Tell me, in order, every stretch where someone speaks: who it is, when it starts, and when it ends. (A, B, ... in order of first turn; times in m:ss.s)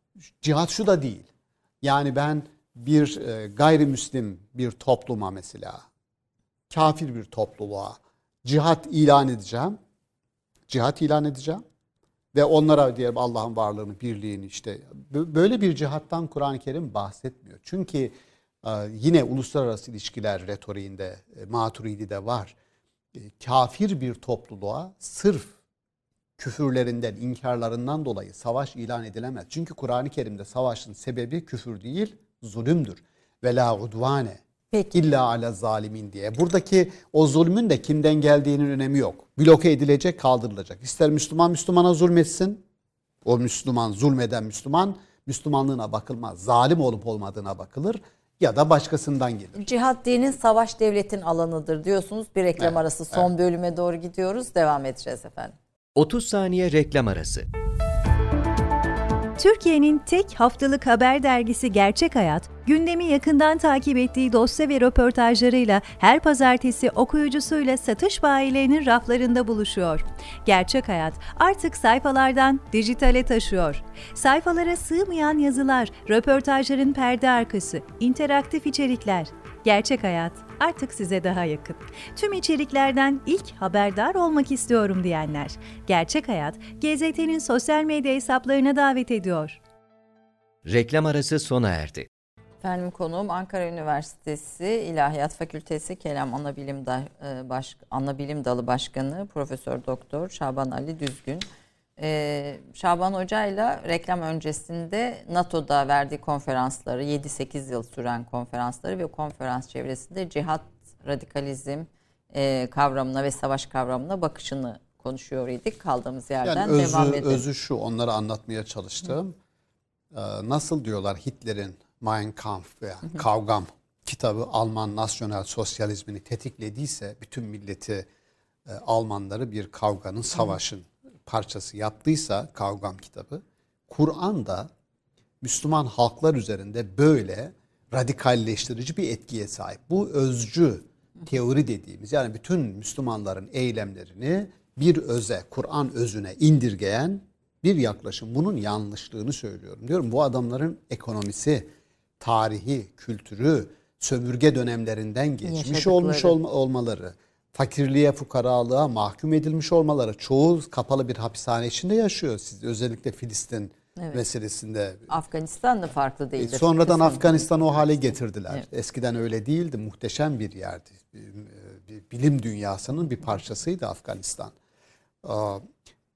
0:00.4-0:01.3 A
0:01.8-0:05.8 A
0:06.7-0:09.8 A
0:10.7-0:11.6 A
0:12.3-0:22.5 A
0:23.2-0:25.5 A
0:26.4-0:34.4 A
0:34.9-0:42.6 A
0:43.2-0:49.6 A
0:49.5-0:55.5 B
0:52.6-0:53.2 A
0:56.0-0:57.4 C
0:59.4-1:29.6 D
1:30.6-1:32.1 C
1:32.6-1:41.4 B
1:42.0-1:57.4 B
1:56.4-1:59.3 A
2:00.1-2:08.1 A
2:08.7-2:14.7 A
2:15.4-2:45.1 A
2:35.4-2:36.4 B
2:45.1-2:47.8 B
2:46.4-2:54.5 A
2:55.2-2:55.6 A